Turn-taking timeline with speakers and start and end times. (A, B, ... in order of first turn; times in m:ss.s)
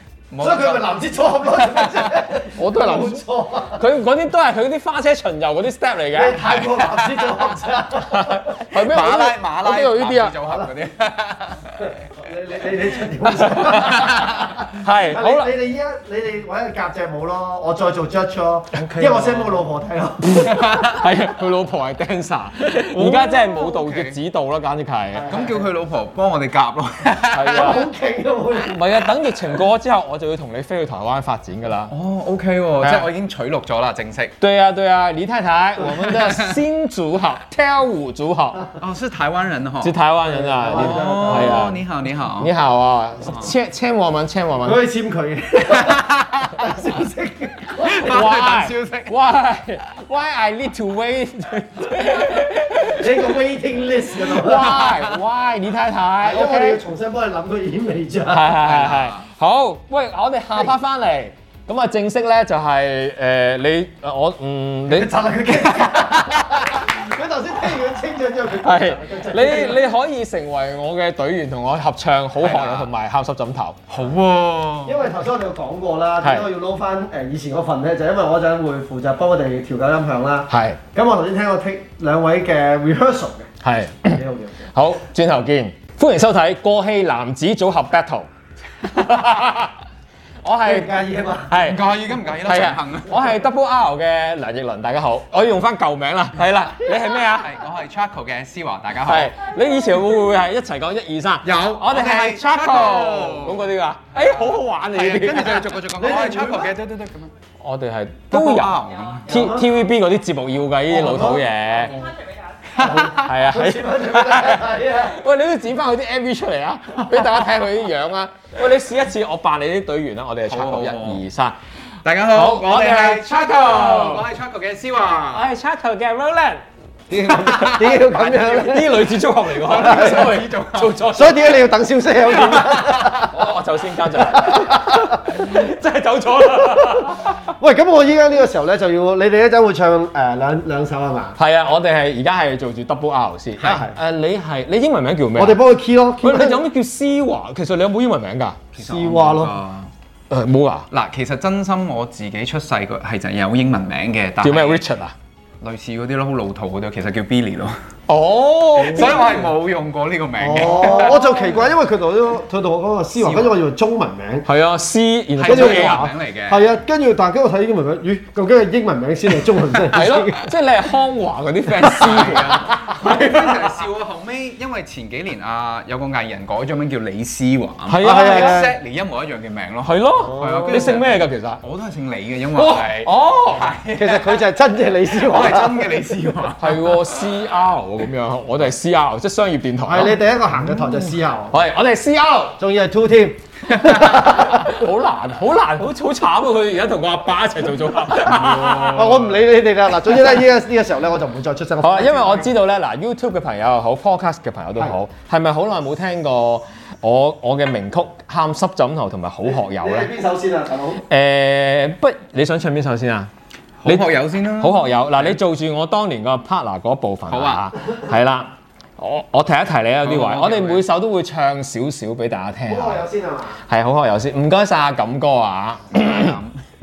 0:00.3-0:01.0 A
0:00.4-0:03.8 B
0:01.6-0:02.0 A
0:02.6-0:06.4 C
0:06.1-0:08.6 B
0:06.4-0:07.4 A
0:08.1-0:10.4 C
0:08.7-0:11.9 A
0:12.2-0:20.6 B
0:13.3-0:15.5 C
0:13.8-0:14.5 A
0:18.7-0:19.6 A
0:20.4-0:21.0 A
0:20.8-0:25.3 C
0:22.7-0:24.2 A
0:25.1-0:25.7 B
0:25.3-0:27.8 A
0:27.3-0:27.9 C
0:27.5-0:28.8 B
0:28.6-0:31.9 C
0:31.9-0:34.4 A
0:32.8-0:33.1 C
0:34.4-0:38.6 C
0:35.9-0:36.6 A
0:38.8-0:40.0 A
0:39.8-0:41.8 C
0:40.3-0:41.7 B
0:40.7-0:42.5 A
0:42.4-0:44.8 C
0:44.6-0:48.1 B
0:45.6-0:46.6 A
0:47.8-0:49.2 A
0:48.0-0:53.4 C
0:52.8-0:54.8 B
0:54.1-0:56.8 C
0:56.2-0:58.6 B
0:58.3-1:05.1 C
0:58.6-0:59.2 A
1:04.9-1:09.8 B
1:08.6-1:13.8 C
1:12.4-1:12.9 A
1:13.9-1:15.1 A
1:14.8-1:23.5 B
1:16.2-1:16.5 C
1:20.5-1:20.8 C
1:23.6-1:24.2 C
1:24.1-1:24.7 B
1:24.7-1:28.3 C
1:28.8-1:29.7 C
1:30.4-1:37.6 C
1:30.6-1:31.6 B
1:31.6-1:33.3 A
1:37.4-1:39.3 A
1:39.0-1:45.8 C
1:41.4-1:43.6 A
1:44.9-1:47.3 A
1:46.0-1:46.7 B
1:47.6-1:51.9 C
1:48.3-1:49.3 A
1:49.3-1:49.7 B
1:50.9-1:52.1 B
1:52.7-1:53.3 A
1:52.8-1:55.2 B
1:53.1-2:01.6 C
1:57.0-1:57.3 A
2:00.5-2:01.2 A
2:02.0-2:05.5 A
2:02.3-2:04.3 C
2:05.3-2:06.6 C
2:07.1-2:08.6 A
2:07.3-2:09.1 B
2:08.2-2:11.7 C
2:09.5-2:11.0 A
2:09.7-2:10.4 B
2:11.1-2:13.4 B
2:12.6-2:17.4 C
2:14.2-2:15.2 B
2:17.6-2:21.4 B
2:21.4-2:25.6 C
2:23.6-2:24.0 B
2:25.4-2:26.6 B
2:26.2-2:28.6 C
2:28.7-2:29.9 A
2:28.8-2:29.6 B
2:30.3-2:30.9 C
2:30.9-2:34.8 A
2:34.4-2:35.1 C
2:35.6-2:37.8 A
2:38.1-2:39.5 C
2:38.8-2:41.6 A
2:38.8-2:39.4 B
2:40.4-2:44.5 B
2:40.5-2:41.5 C
2:43.2-2:43.5 A
2:44.4-2:46.1 C
2:45.4-2:46.6 A
2:45.4-2:50.4 B
2:49.9-2:53.8 C
2:51.8-3:04.4 A
2:57.9-2:58.6 C
2:58.0-2:58.7 B
2:59.8-3:01.6 C
3:00.2-3:01.0 B
3:02.5-3:03.7 C
3:03.9-3:05.9 B
3:05.1-3:07.0 A
3:06.6-3:10.2 C
3:09.8-3:11.6 B
3:11.5-3:12.6 C
3:12.6-3:14.8 B
3:13.9-3:19.2 C
3:18.2-3:19.3 A
3:18.9-3:22.5 B
3:20.1-3:20.4 C
3:21.8-3:30.1 C
3:29.7-3:31.0 B
3:31.0-3:33.3 C
3:33.8-3:35.4 A
3:33.8-3:43.0 C
3:37.3-3:37.7 A
3:40.0-3:40.8 A
3:42.7-3:43.6 B
3:43.7-3:46.4 C
3:45.9-3:46.6 A